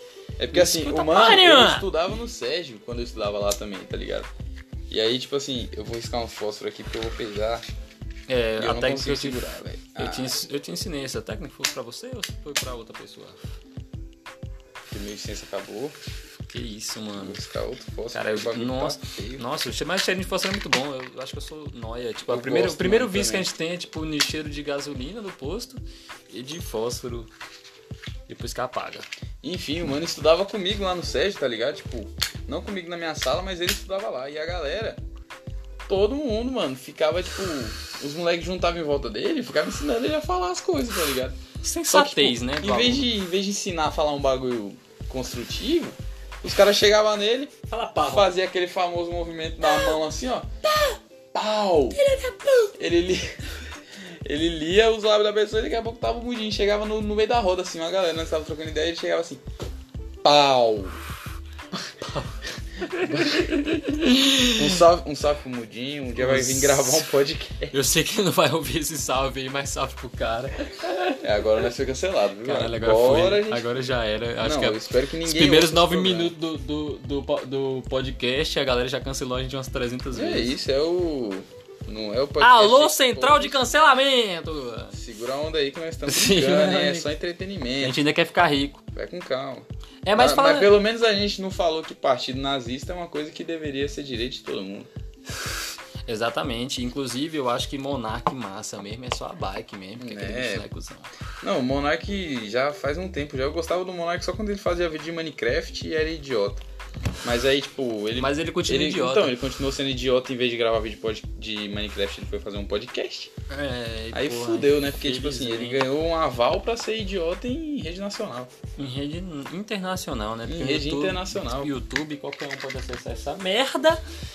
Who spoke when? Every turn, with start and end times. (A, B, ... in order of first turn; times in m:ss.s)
0:00.4-0:04.3 A
0:00.5-0:01.9 B
0:04.9-0:07.7 A
0:08.3-0:09.4 B
0:08.6-0:10.4 A
0:10.0-0:13.4 B
0:14.9-0:16.0 A
0:16.5-0:17.4 B
0:17.2-0:19.5 A
0:18.1-0:27.3 B
0:22.3-0:23.5 A
0:28.3-0:29.1 B
0:29.4-0:35.0 A
0:35.9-0:50.5 A
0:41.6-0:43.1 B
0:47.7-0:48.3 B
0:50.7-0:51.0 B
0:51.3-0:52.0 A
0:52.0-0:52.7 B
0:52.8-0:53.4 A
0:54.2-0:59.4 A
1:00.2-1:01.0 A
1:01.9-1:04.8 B
1:02.9-1:03.7 A
1:04.5-1:07.8 A
1:06.2-1:07.0 B
1:07.7-1:11.1 B
1:11.2-1:13.8 A
1:12.4-1:20.6 B
1:14.4-1:16.3 A
1:20.1-1:23.6 A
1:22.4-1:25.0 B
1:24.9-1:28.0 A
1:26.1-1:27.1 B
1:27.8-1:28.8 B
1:28.9-1:34.9 A
1:30.0-1:30.8 B
1:36.1-1:41.1 B
1:40.0-1:40.7 A
1:41.4-1:46.6 A
1:47.2-1:53.3 A
1:48.2-1:49.3 B
1:53.5-1:55.9 B
1:54.1-1:58.5 A
1:58.8-2:04.0 B
2:00.5-2:01.7 A